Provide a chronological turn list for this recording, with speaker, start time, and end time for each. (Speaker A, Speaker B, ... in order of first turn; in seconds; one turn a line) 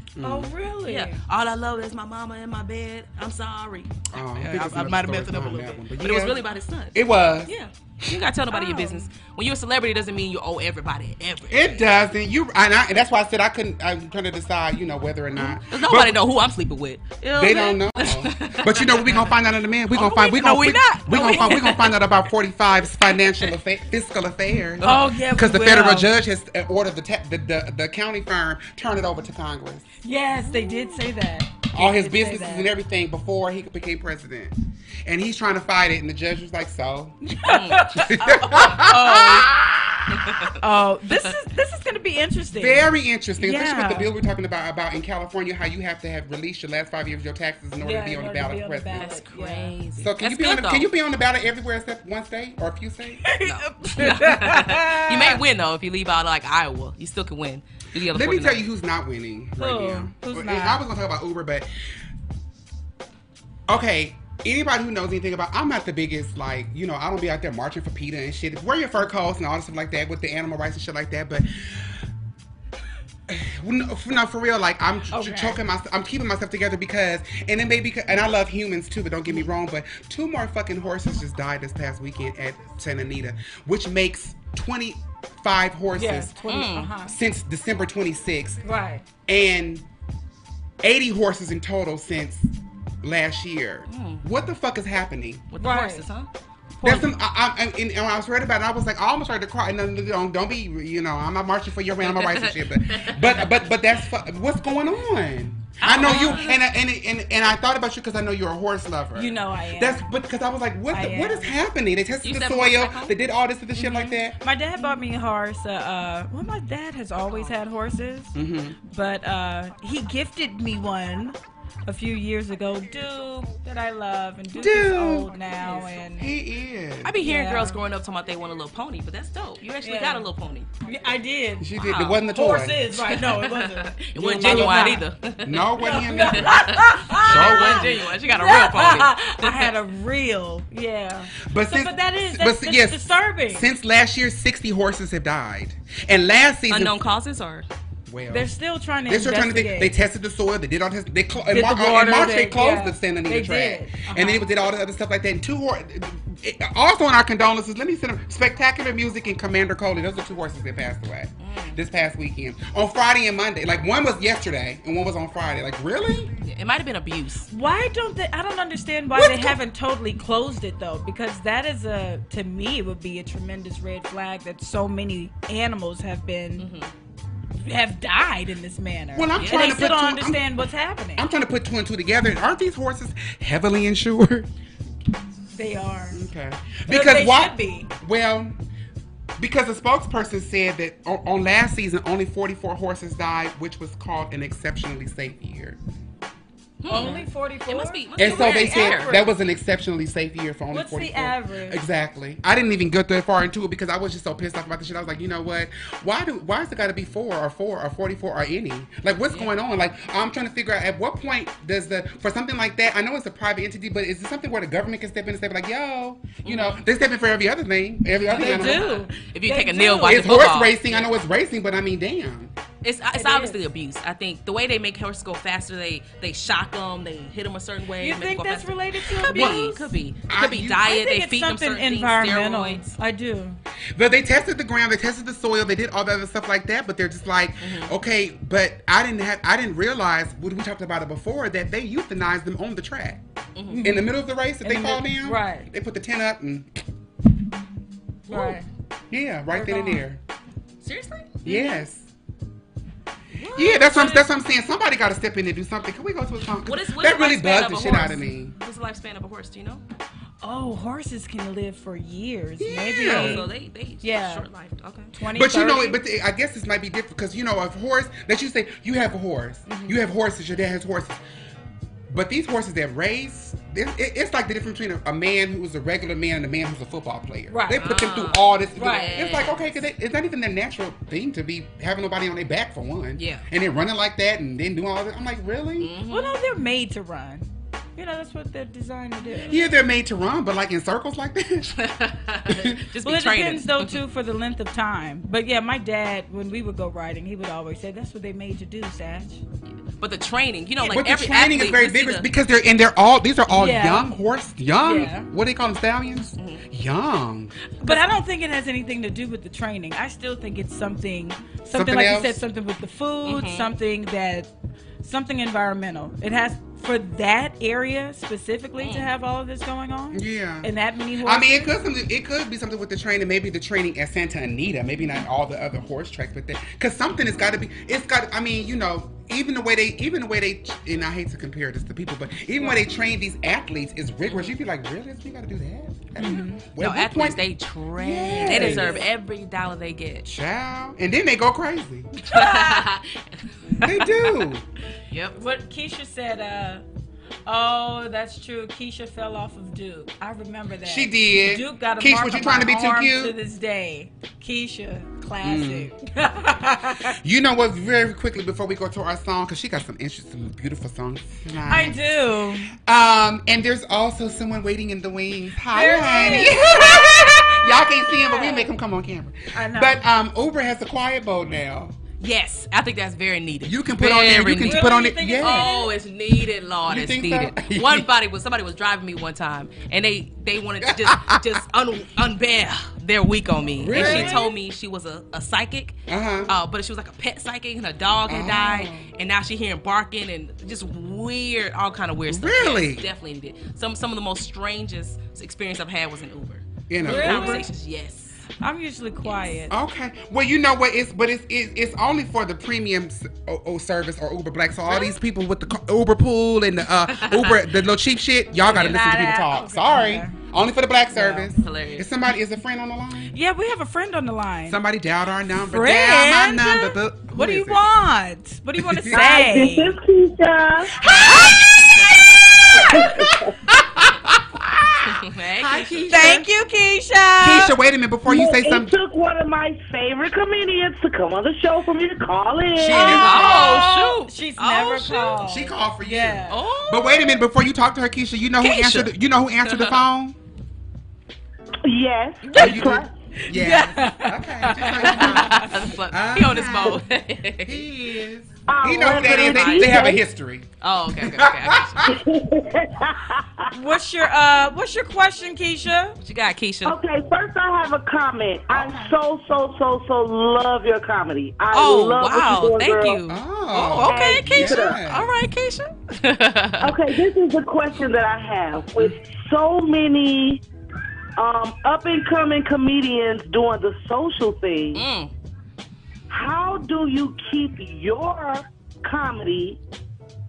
Speaker A: 0.1-0.5
Speaker B: 0.2-1.2
Speaker C: 0.9-11.8
Speaker A: 4.1-6.4
Speaker A: 6.9-7.5
Speaker B: 8.5-9.1
Speaker A: 11.5-16.2
Speaker C: 15.4-19.3
Speaker A: 17.4-29.9
Speaker C: 19.9-22.1
Speaker C: 23.1-23.5
Speaker C: 24.8-25.1
Speaker B: 24.8-26.1
Speaker B: 30.0-32.7
Speaker A: 31.7-34.5
Speaker A: 35.1-40.5
Speaker C: 37.5-39.5
Speaker B: 37.5-39.5
Speaker C: 40.1-40.5
Speaker B: 40.6-44.1
Speaker A: 42.5-49.1
Speaker B: 47.8-49.7
Speaker C: 48.9-50.9
Speaker A: 50.0-53.3
Speaker B: 53.2-55.4
Speaker C: 53.4-58.6
Speaker A: 58.0-61.7
Speaker B: 59.6-60.8
Speaker A: 63.7-72.0
Speaker A: 73.3-86.3
Speaker B: 75.1-75.6
Speaker B: 86.0-87.2
Speaker C: 86.5-86.9
Speaker A: 87.1-88.6
Speaker B: 88.6-89.0
Speaker A: 89.3-89.8
Speaker A: 90.8-92.5
Speaker A: 93.0-95.5
Speaker C: 93.9-94.2
Speaker C: 95.5-96.3
Speaker B: 95.6-96.1
Speaker C: 96.8-97.1
Speaker A: 96.8-114.4
Speaker C: 102.0-103.5
Speaker C: 105.8-106.6
Speaker B: 109.2-110.1
Speaker B: 110.9-111.6
Speaker C: 112.2-113.2
Speaker B: 113.8-126.3
Speaker A: 118.3-118.8
Speaker A: 124.5-125.3
Speaker C: 125.6-125.9
Speaker A: 126.2-127.2
Speaker C: 127.0-130.7
Speaker B: 127.2-127.8
Speaker B: 129.8-130.3
Speaker B: 130.9-131.7
Speaker A: 131.6-132.9
Speaker C: 131.8-132.2
Speaker B: 132.2-135.1
Speaker C: 132.9-139.7
Speaker A: 134.2-136.6
Speaker B: 135.8-143.7
Speaker A: 137.2-138.0
Speaker A: 141.4-147.1
Speaker C: 146.7-147.7
Speaker A: 148.1-148.5
Speaker B: 148.3-149.9
Speaker A: 149.1-166.3
Speaker B: 151.5-154.5
Speaker C: 161.4-161.8
Speaker C: 166.4-167.5
Speaker B: 167.5-176.7
Speaker A: 169.2-169.6
Speaker C: 176.6-176.9
Speaker B: 177.6-181.3
Speaker A: 179.2-180.6
Speaker C: 179.4-179.9
Speaker A: 181.2-184.5
Speaker B: 185.5-186.2
Speaker A: 186.1-188.5
Speaker B: 186.9-187.9
Speaker A: 189.4-195.8
Speaker C: 196.8-199.2
Speaker B: 196.9-199.3
Speaker A: 196.9-197.3
Speaker A: 198.2-218.9
Speaker B: 200.7-201.8
Speaker C: 216.4-216.8
Speaker C: 218.2-221.1
Speaker B: 218.3-220.4
Speaker A: 220.0-222.5
Speaker C: 222.8-232.9
Speaker B: 223.2-223.6
Speaker B: 228.0-229.9
Speaker A: 229.3-230.8
Speaker B: 230.7-233.6
Speaker A: 233.9-243.2
Speaker C: 237.6-237.9
Speaker C: 243.6-243.9
Speaker B: 243.7-244.1
Speaker A: 243.8-246.8
Speaker B: 244.6-245.7
Speaker C: 248.3-248.6
Speaker B: 248.3-248.7
Speaker A: 249.1-250.2
Speaker B: 249.5-250.0
Speaker C: 250.8-251.4
Speaker B: 251.4-251.9
Speaker A: 251.4-252.1
Speaker C: 253.4-254.3
Speaker A: 253.5-258.5
Speaker C: 256.7-259.8
Speaker B: 260.4-264.5
Speaker A: 262.6-263.4
Speaker C: 263.1-265.1
Speaker B: 265.1-266.0
Speaker A: 265.3-271.2
Speaker B: 269.7-270.0
Speaker A: 272.1-285.9
Speaker B: 277.5-277.9
Speaker C: 277.7-279.8
Speaker B: 278.8-279.1
Speaker C: 283.2-283.4
Speaker C: 285.8-286.4
Speaker B: 286.1-289.6
Speaker A: 289.5-291.8
Speaker C: 291.8-294.0
Speaker A: 292.5-292.8
Speaker B: 293.0-299.4
Speaker C: 300.0-302.3
Speaker A: 300.8-307.5
Speaker B: 303.5-304.1
Speaker B: 304.8-305.3
Speaker C: 306.4-306.6
Speaker B: 307.8-314.5
Speaker A: 311.6-312.4
Speaker C: 313.2-313.7
Speaker B: 315.0-321.7
Speaker C: 318.8-319.1
Speaker A: 320.1-320.7
Speaker A: 321.2-337.4
Speaker C: 334.3-334.5
Speaker B: 336.2-336.6
Speaker C: 336.3-340.3
Speaker A: 338.0-339.1
Speaker B: 338.4-339.1
Speaker A: 340.2-342.1
Speaker C: 342.2-343.2
Speaker B: 342.3-342.9
Speaker A: 343.8-344.6
Speaker C: 345.1-345.4
Speaker B: 345.4-346.9
Speaker B: 347.5-357.2
Speaker A: 350.9-353.4
Speaker A: 355.4-355.9
Speaker A: 357.1-362.1
Speaker B: 361.7-362.7
Speaker A: 362.7-372.0
Speaker B: 365.7-368.7
Speaker B: 369.5-370.0
Speaker C: 372.2-398.4
Speaker A: 373.6-375.7
Speaker B: 374.6-375.9
Speaker A: 376.9-378.1
Speaker A: 380.8-381.6
Speaker A: 383.8-384.4
Speaker B: 383.9-384.5
Speaker A: 386.1-386.5
Speaker A: 388.3-389.1
Speaker A: 392.3-393.1
Speaker A: 396.9-397.7
Speaker B: 397.0-397.7
Speaker B: 398.6-399.7
Speaker C: 399.2-399.6
Speaker A: 399.7-413.4
Speaker C: 407.1-407.7
Speaker B: 408.6-410.4
Speaker B: 411.1-411.5
Speaker C: 411.5-412.1
Speaker B: 413.3-414.8
Speaker A: 414.7-417.9
Speaker B: 415.6-420.0
Speaker A: 418.8-419.2
Speaker D: 419.1-421.0
Speaker A: 421.0-426.5
Speaker C: 421.1-422.1
Speaker D: 422.8-423.5
Speaker C: 425.1-426.4
Speaker B: 426.1-427.8
Speaker A: 427.4-428.9
Speaker D: 428.3-433.2
Speaker A: 432.8-433.9
Speaker B: 432.9-436.6
Speaker C: 433.0-435.4
Speaker A: 435.4-440.4
Speaker C: 436.5-437.4
Speaker C: 438.6-439.1
Speaker C: 439.6-440.0
Speaker D: 441.8-443.1
Speaker B: 442.4-442.9
Speaker A: 442.6-447.0
Speaker B: 443.4-445.8
Speaker C: 445.0-447.8
Speaker A: 447.6-450.7
Speaker D: 448.7-450.2
Speaker C: 449.2-450.1
Speaker C: 450.8-452.1
Speaker A: 451.2-452.2
Speaker D: 452.0-453.8
Speaker B: 453.7-456.2
Speaker C: 456.2-457.0
Speaker D: 456.9-463.2
Speaker A: 458.7-459.2
Speaker C: 461.7-467.1
Speaker A: 463.3-465.3
Speaker D: 464.0-465.0
Speaker D: 466.8-470.6
Speaker D: 471.4-475.1
Speaker C: 474.9-475.3
Speaker D: 476.3-479.8